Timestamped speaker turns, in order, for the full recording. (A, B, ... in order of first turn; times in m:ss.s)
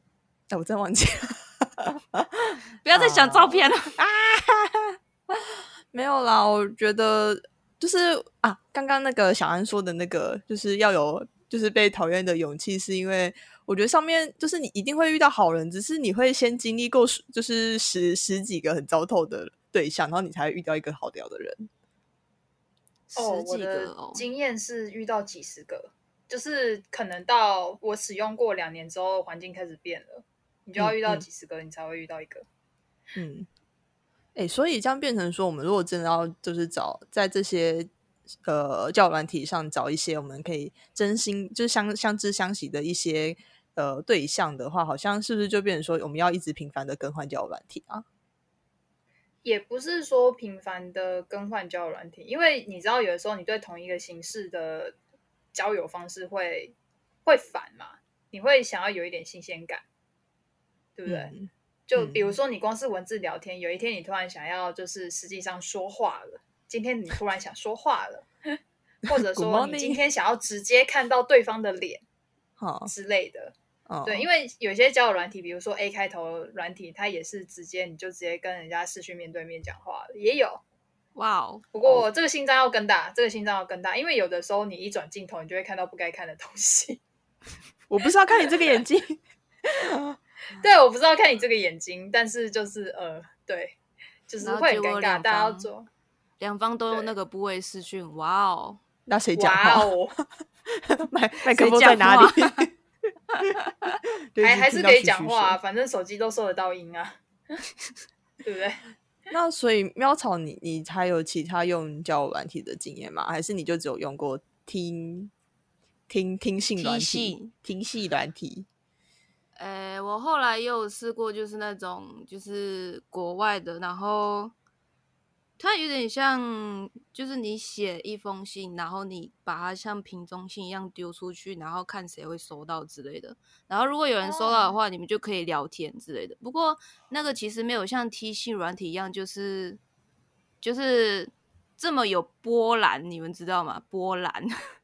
0:00.5-0:21.7 A
0:02.8-0:03.9 B
0:23.1-0:24.2 B
0:23.2-0:32.4 C
0:30.8-0:31.2 A
0:33.1-0:33.5 A
0:34.3-0:37.9 A
0:38.4-0:48.0 A
0:49.4-0:55.0 C
0:55.5-0:56.7 C
0:57.2-0:59.8 C
1:01.0-1:01.3 C
1:01.1-1:02.3 A
1:01.9-1:08.3 C
1:09.1-1:12.0 C
1:09.1-1:10.0 A
1:12.6-1:12.9 A
1:12.8-1:20.6 C
1:13.9-1:14.3 A
1:21.1-1:21.6 B
1:21.7-1:27.0 C
1:27.9-1:29.2 A
1:29.7-1:30.2 A
1:30.6-1:33.8 C
1:34.3-1:35.9 C
1:34.4-1:35.7 B
1:36.4-1:38.8 B
1:39.1-1:39.9 A
1:39.4-1:40.2 C
1:40.7-1:42.7 A
1:41.5-1:42.7 B
1:43.4-1:44.0 B
1:44.3-1:45.6 A
1:44.4-1:47.6 C
1:48.4-1:48.8 C
1:49.3-1:55.3 A
1:56.1-1:58.6 A
1:56.8-1:57.5 B
1:59.6-2:04.5 B
2:05.6-2:19.8 B
2:14.2-2:14.8 C
2:20.6-2:24.5 B